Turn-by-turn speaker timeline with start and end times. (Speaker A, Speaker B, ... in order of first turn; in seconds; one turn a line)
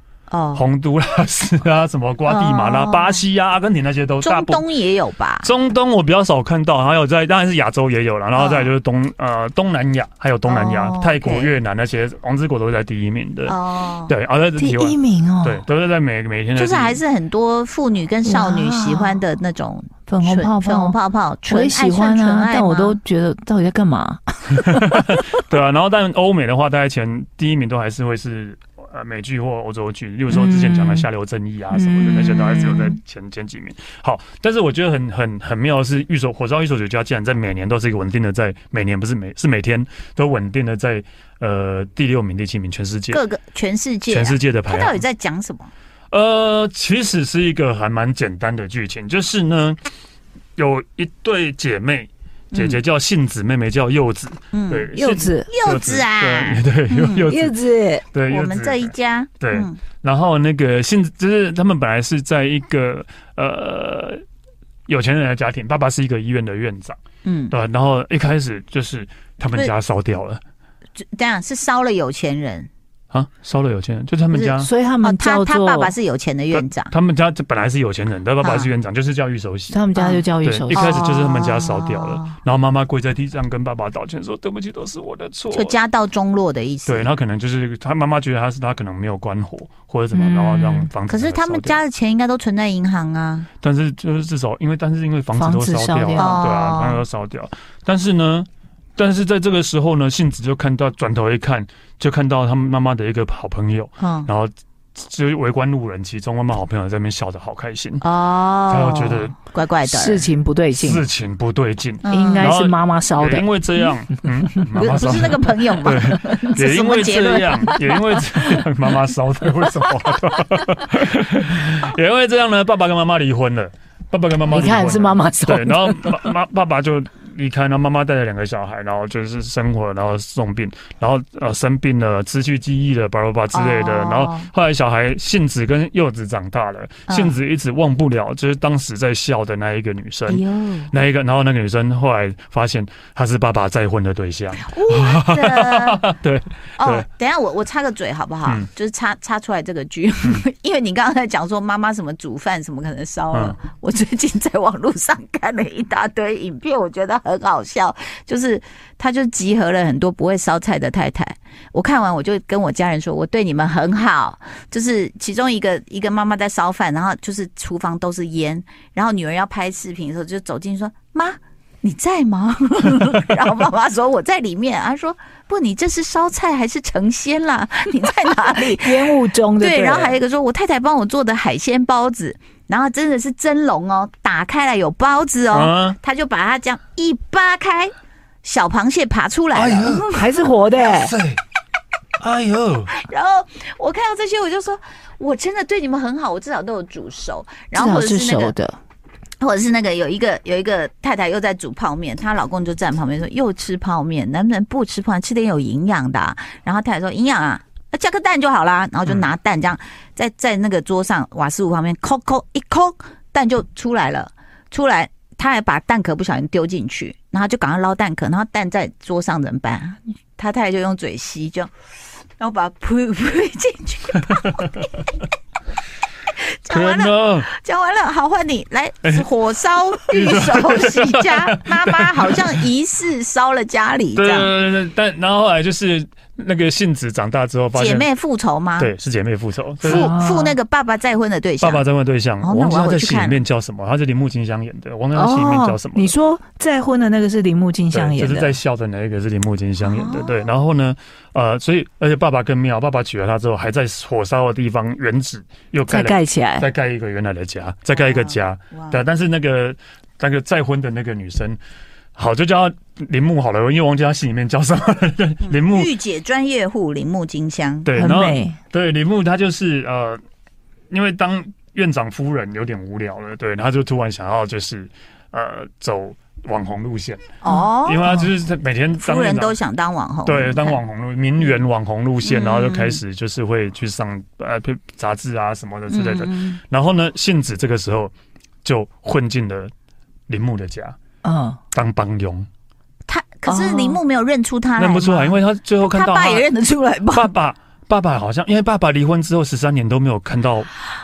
Speaker A: 0.3-0.6
Speaker B: 0.5-4.7
Speaker A: 2.2-3.2
Speaker A: 4.2-5.5
Speaker B: 5.4-13.6
Speaker A: 8.3-8.7
Speaker A: 10.4-11.5
Speaker A: 13.5-14.1
Speaker B: 14.1-17.0
Speaker C: 14.6-15.6
Speaker A: 16.5-23.0
Speaker C: 18.2-19.2
Speaker C: 20.1-25.3
Speaker B: 24.6-43.2
Speaker C: 30.3-31.1
Speaker C: 31.7-33.0
Speaker A: 43.1-45.7
Speaker B: 44.1-45.0
Speaker B: 46.1-49.8
Speaker B: 50.5-57.6
Speaker A: 52.5-52.8
Speaker A: 54.5-54.9
Speaker C: 54.9-55.5
Speaker A: 55.5-57.3
Speaker C: 57.2-58.0
Speaker B: 58.1-64.2
Speaker A: 58.3-59.8
Speaker B: 64.9-67.0
Speaker A: 67.2-67.5
Speaker B: 67.5-70.4
Speaker A: 71.0-72.7
Speaker B: 73.1-74.7
Speaker A: 74.3-76.9
Speaker C: 74.6-75.9
Speaker B: 76.5-79.8
Speaker A: 78.4-78.7
Speaker C: 79.7-81.1
Speaker A: 80.0-82.3
Speaker B: 80.4-85.8
Speaker A: 85.5-87.1
Speaker B: 86.8-91.8
Speaker A: 90.1-93.5
Speaker B: 93.6-108.0
Speaker C: 95.3-96.4
Speaker A: 96.1-97.0
Speaker A: 104.0-104.3
Speaker A: 108.0-110.3
Speaker B: 108.7-109.3
Speaker C: 109.8-111.0
Speaker B: 110.7-147.1
Speaker A: 112.0-112.5
Speaker C: 112.1-113.5
Speaker A: 114.7-117.8
Speaker C: 124.5-126.3
Speaker A: 133.5-134.5
Speaker A: 137.1-137.4
Speaker A: 140.3-140.9
Speaker A: 144.7-146.0
Speaker A: 146.8-190.2
Speaker B: 153.3-153.6
Speaker C: 178.7-180.2
Speaker B: 185.5-185.9
Speaker B: 189.5-190.1
Speaker C: 190.1-191.1
Speaker B: 190.8-191.4
Speaker B: 192.2-192.9
Speaker A: 192.9-198.6
Speaker C: 197.7-198.8
Speaker A: 199.4-221.7
Speaker A: 222.4-225.0
Speaker A: 226.3-234.5
Speaker B: 226.7-227.5
Speaker B: 230.1-232.6
Speaker B: 234.2-238.1
Speaker A: 237.7-238.9
Speaker B: 238.8-240.1
Speaker C: 239.8-240.6
Speaker A: 239.8-241.8
Speaker B: 241.6-246.1
Speaker A: 242.4-243.4
Speaker C: 245.1-248.6
Speaker B: 247.9-261.6
Speaker A: 249.8-250.5
Speaker C: 255.9-256.7
Speaker A: 257.9-259.0
Speaker B: 262.1-265.9
Speaker A: 265.4-267.9
Speaker B: 267.8-270.2
Speaker C: 267.9-268.6
Speaker B: 270.9-279.6
Speaker A: 277.4-278.1
Speaker C: 277.4-278.3
Speaker A: 279.0-280.8
Speaker B: 280.2-288.1
Speaker A: 282.2-283.0
Speaker A: 285.9-286.6
Speaker B: 288.6-289.7
Speaker B: 290.3-290.9
Speaker C: 291.2-291.6
Speaker B: 291.7-292.5
Speaker A: 293.1-297.3
Speaker C: 293.4-294.0
Speaker B: 294.8-296.5
Speaker B: 297.1-300.7